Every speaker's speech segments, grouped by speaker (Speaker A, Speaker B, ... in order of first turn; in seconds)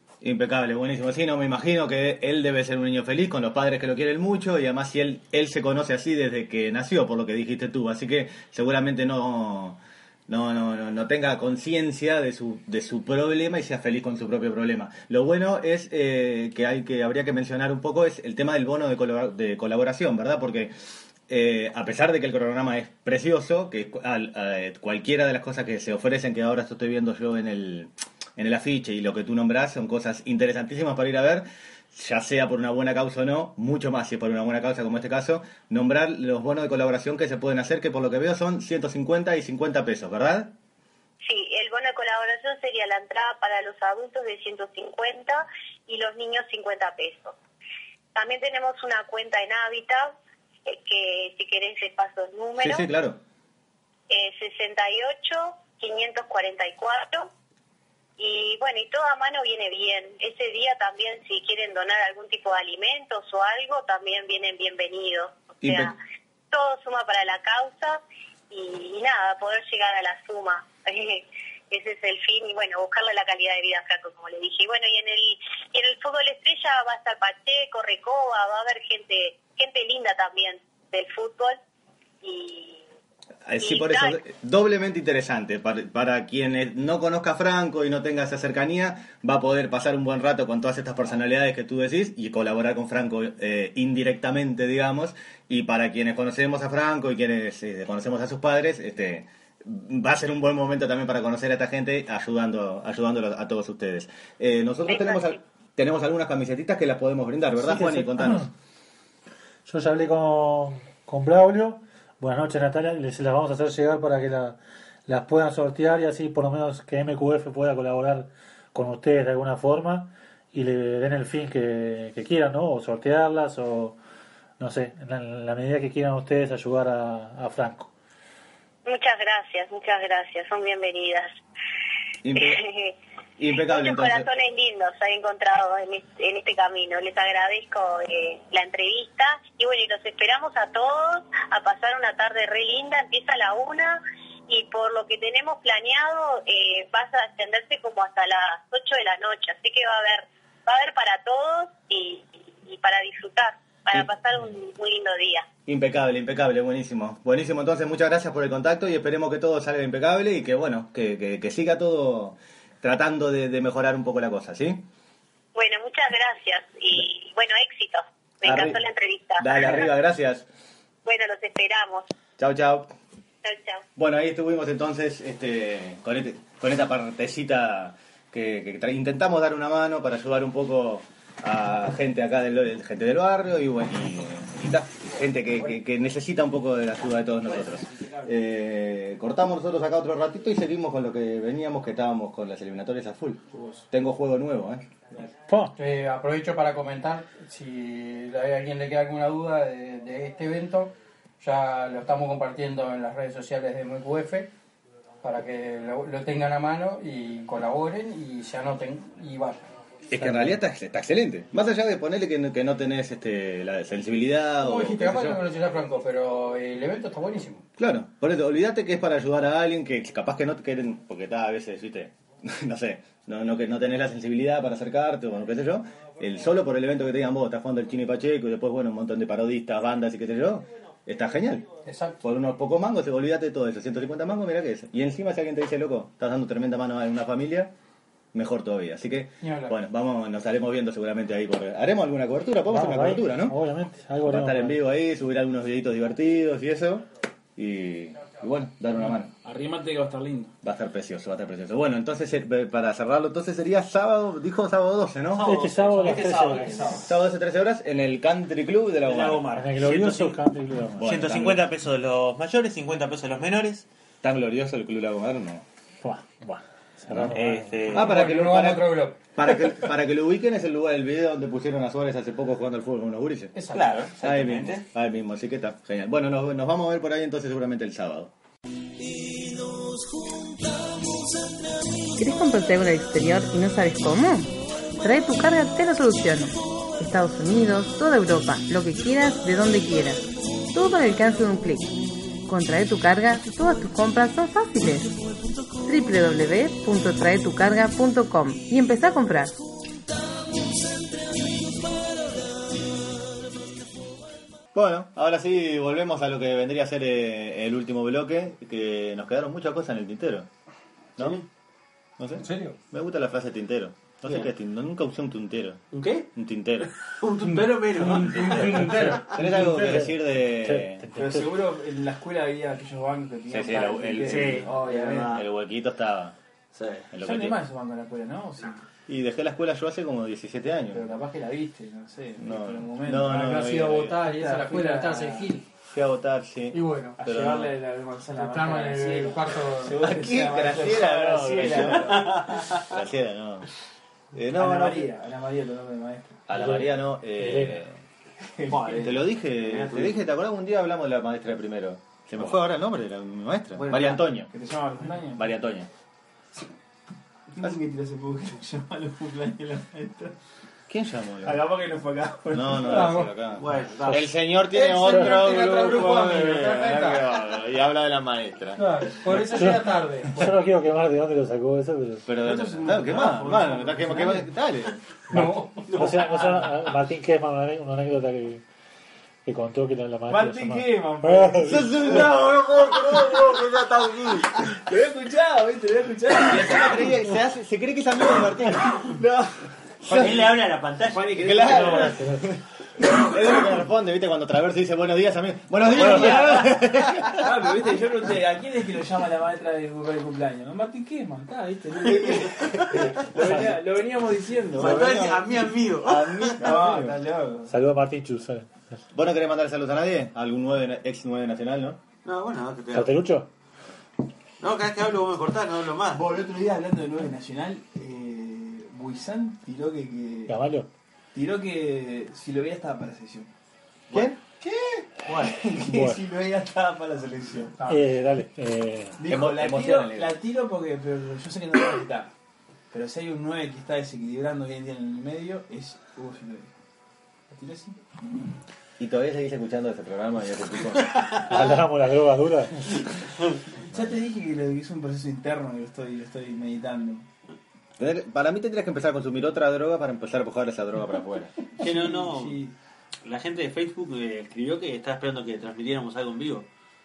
Speaker A: 0.2-20.7, 21.3-40.5, 52.6-53.2, 65.6-65.9, 83.5-108.5, 132.2-132.6, 133.4-134.3, 155.7-164.8, 168.4-168.8, 169.4-170.5, 172.4-172.9, 174.0-194.9, 210.1-215.4, 217.8-231.7, 232.2-237.7, 238.3-243.6, 244.2-249.3, 250.6-255.7, 257.1-259.4, 261.0-261.7, 264.2-265.6, 267.1-267.4, 267.9-273.6, 274.2-278.3, 304.7-310.5, 311.2-311.4, 312.2-316.9, 319.3-321.1, 323.5-324.7, 325.3-326.4, 327.1-327.6, 329.1-331.1, 332.4-334.2, 335.9-337.8, 340.0-343.7, 344.3-345.1, 346.5-348.0, 349.0-354.5, 355.4-355.9, 360.9-361.7, 362.5-369.4, 372.3-374.9, 381.6-384.6, 386.4-389.1, 390.1-390.4, 391.4-392.4, 393.0-397.9, 402.3-403.5, 404.8-405.5, 406.0-407.2, 409.1-412.0, 424.1-424.4, 429.3-430.4, 439.0-441.8, 448.0-451.5
Speaker B: 41.2-47.4, 48.1-52.9, 54.1-57.3, 58.2-66.0, 66.5-81.6, 82.2-82.8, 83.6-84.2, 104.9-105.4, 128.9-131.3, 132.3-155.5, 165.6-169.9, 171.1-172.1, 173.4-173.8
Speaker C: 107.6-108.5, 109.7-124.0, 124.6-127.9, 195.5-195.7, 210.2-210.5, 242.7-244.8, 255.4-257.0, 259.5-261.1, 266.0-267.9, 318.8-321.5, 346.5-347.8, 365.0-365.4, 369.5-372.2, 375.3-378.6, 379.5-382.0, 391.9-392.4, 407.7-408.7, 412.9-413.5, 420.5-420.9, 425.8-426.2, 427.9-429.2, 441.5-442.8
Speaker D: 193.5-193.8, 249.4-250.5, 321.1-325.4, 327.2-328.8, 330.9-335.5, 337.2-342.7, 344.5-346.5, 348.5-349.3, 354.5-355.5, 357.5-360.4, 361.4-363.2, 372.4-374.5, 375.9-376.8, 380.3-383.5, 384.6-387.1, 388.8-392.5, 395.9-405.2, 406.6-407.7, 416.1-420.5, 421.3-423.5, 424.6-428.0, 429.2-432.3, 432.9-436.7, 437.5-438.2, 443.9-447.3, 451.8-452.8
Speaker E: 195.8-204.5, 205.2-209.7, 214.6-217.6, 231.8-232.2, 239.4-239.8, 267.9-269.8, 273.5-273.9, 312.4-312.8, 317.4-319.9, 333.3-335.6, 336.7-337.2, 338.4-340.0, 362.8-363.4, 364.7-367.2, 368.8-370.6, 375.3-375.8
Speaker F: 255.3-257.1, 259.0-260.4, 261.0-263.9, 267.3-268.1, 273.7-274.9, 315.9-316.3, 316.8-319.1, 324.2-325.4, 326.7-327.1, 341.6-342.9, 348.7-350.2, 353.8-354.2, 363.5-364.3, 390.1-392.1, 396.2-396.6, 404.8-406.7, 412.2-413.2, 414.6-416.3, 425.2-425.6, 451.8-452.6, 453.2-456.7
Speaker G: 282.2-290.2, 290.7-291.9, 292.5-295.2, 295.8-299.6